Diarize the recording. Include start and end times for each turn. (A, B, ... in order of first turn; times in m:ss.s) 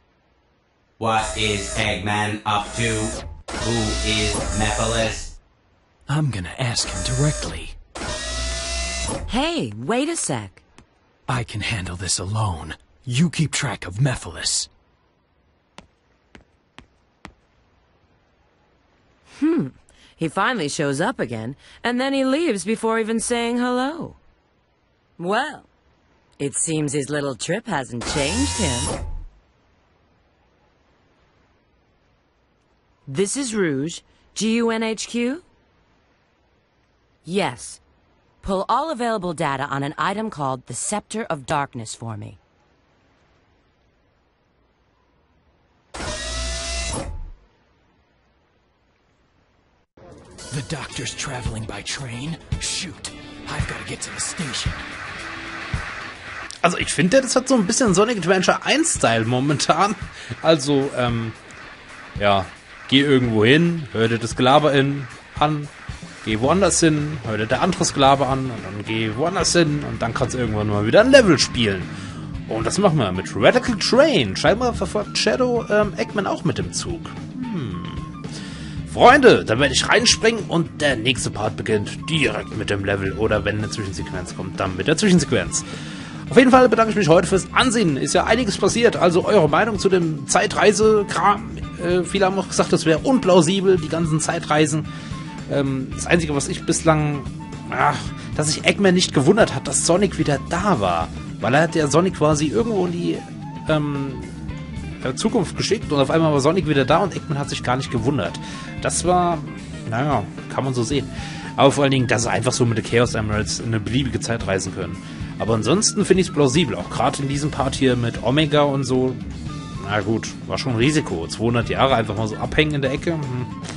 0:01.0-0:05.3 A
0:06.1-0:07.7 B
0:09.3-0:10.6 C
0:11.3-0:14.7 B
0:19.3-0:24.2 C
0:25.2-0:25.7 C
0:26.4-0:29.0 C
0:33.1-0:35.4 C
0:37.2-0:37.8 C
0:38.4-0:42.4 C
0:50.5-0:54.8 B
0:56.6-1:01.4 D
1:02.2-1:05.7 D
1:06.2-1:11.9 D
1:12.4-1:18.1 D
1:18.9-1:25.6 D
1:26.3-1:34.9 D
1:35.5-1:44.3 D
1:45.0-1:59.2 D
1:59.8-2:03.5 D